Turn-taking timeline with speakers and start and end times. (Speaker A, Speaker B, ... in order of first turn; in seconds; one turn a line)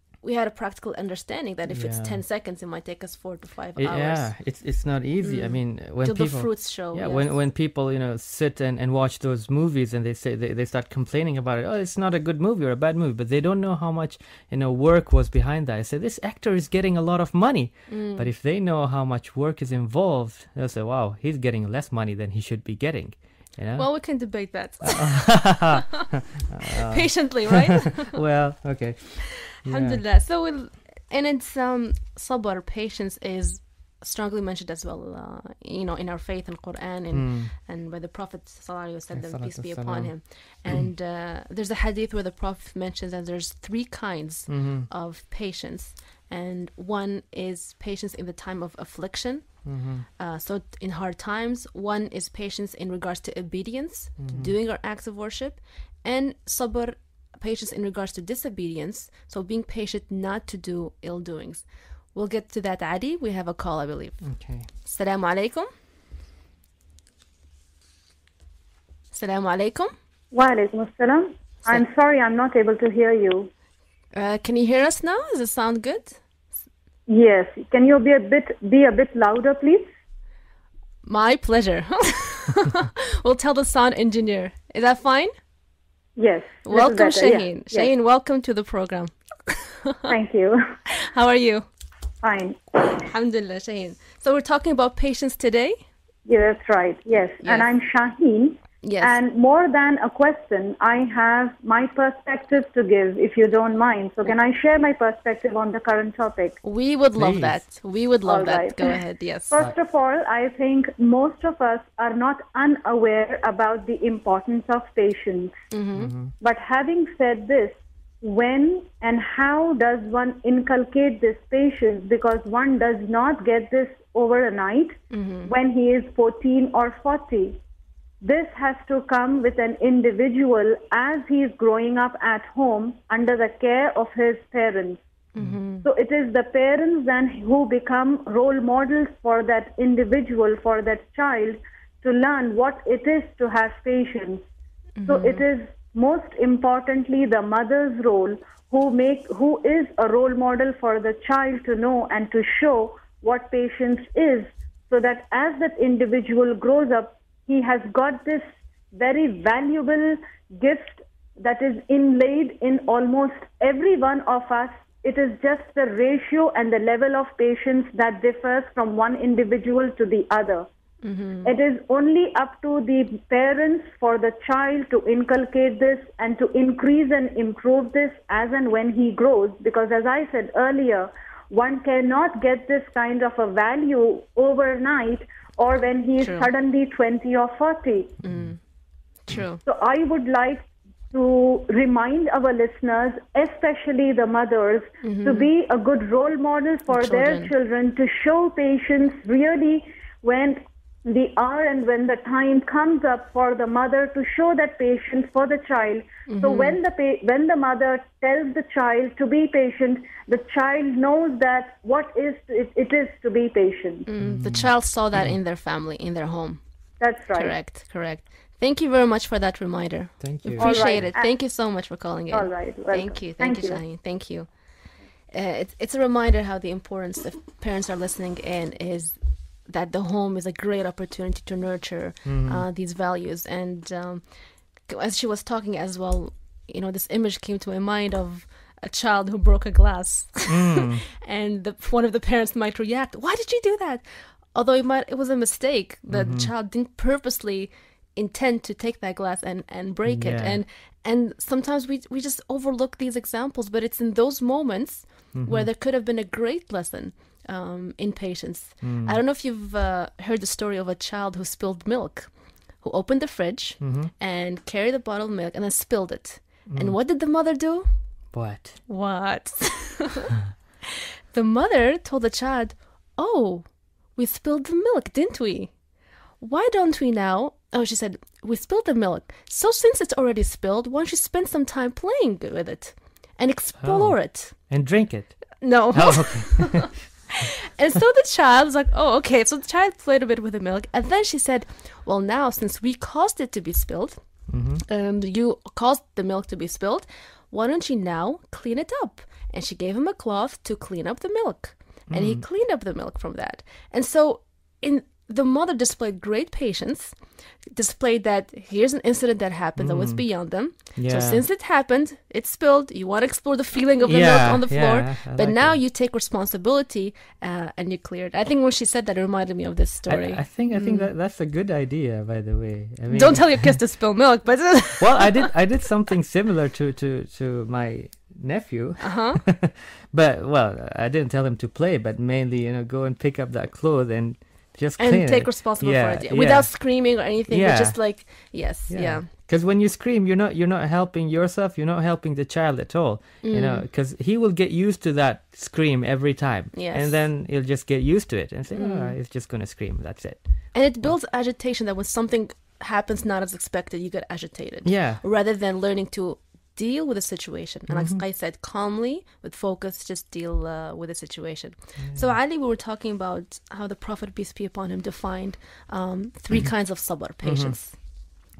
Speaker A: 0.2-4.3
Speaker B: 1.7-2.2
Speaker B: 3.8-30.0
Speaker A: 5.2-7.4
Speaker A: 17.9-18.3
Speaker A: 23.8-25.7
Speaker A: 26.8-28.2
Speaker A: 29.6-64.3
Speaker B: 37.1-37.5
Speaker B: 39.1-40.9
Speaker B: 44.5-44.9
Speaker B: 49.6-50.1
Speaker B: 54.2-54.5
Speaker B: 64.2-64.7
Speaker A: 64.8-65.7
Speaker A: 69.1-69.9
Speaker C: 70.3-73.5
Speaker A: 74.1-76.2
Speaker C: 77.1-79.9
Speaker A: 81.0-85.3
Speaker C: 86.2-87.9
Speaker A: 86.7-90.1
Speaker C: 90.1-90.6
Speaker A: 90.9-91.7
Speaker C: 92.2-92.9
Speaker A: 92.9-95.8
Speaker C: 96.2-106.6
Speaker A: 97.4-97.7
Speaker A: 98.8-99.2
Speaker A: 106.6-109.6
Speaker B: 107.2-107.6
Speaker C: 108.2-115.5
Speaker A: 115.7-116.1
Speaker B: 116.0-116.3
Speaker C: 116.4-127.6
Speaker A: 125.1-125.5
Speaker C: 128.2-135.0
Speaker A: 135.3-135.8
Speaker C: 135.8-144.4
Speaker A: 144.9-145.4
Speaker C: 145.1-170.7
Speaker A: 171.0-171.6
Speaker C: 171.4-188.2
Speaker A: 186.2-186.5
Speaker B: 188.2-188.6
Speaker A: 188.2-188.6
Speaker A: 189.2-189.6
Speaker C: 189.6-214.1
Speaker A: 195.0-195.5
Speaker A: 196.9-197.5
Speaker A: 206.3-206.8
Speaker A: 214.1-216.6
Speaker B: 214.2-215.4
Speaker C: 217.0-217.6
Speaker A: 217.3-224.5
Speaker B: 220.2-220.9
Speaker C: 220.6-221.3
Speaker C: 222.3-223.8
Speaker A: 225.3-234.2
Speaker B: 232.2-232.6
Speaker A: 234.9-262.3
Speaker B: 240.5-241.0
Speaker B: 246.1-246.5
Speaker B: 250.1-250.6
Speaker B: 255.3-255.7
Speaker B: 258.8-259.2
Speaker A: 262.8-267.9
Speaker B: 263.8-264.1
Speaker B: 266.6-267.0
Speaker B: 268.3-268.8
Speaker A: 268.9-270.3
Speaker A: 271.3-275.7
Speaker A: 276.4-284.5
Speaker B: 283.8-287.0
Speaker A: 285.6-294.2
Speaker B: 294.5-294.8
Speaker A: 294.8-321.1
Speaker B: 302.1-302.4
Speaker B: 309.8-310.2
Speaker B: 310.9-311.4
Speaker B: 314.0-315.8
Speaker B: 320.1-323.8
Speaker A: 323.1-325.5
Speaker B: 325.0-338.2
Speaker A: 329.0-329.4
Speaker A: 335.0-339.3
Speaker B: 338.9-350.4
Speaker A: 343.4-343.9
Speaker A: 346.7-347.2
Speaker A: 348.7-349.1
Speaker A: 350.7-367.9
Speaker B: 354.8-355.2
Speaker B: 357.9-358.2
Speaker B: 362.0-362.3
Speaker B: 367.4-367.8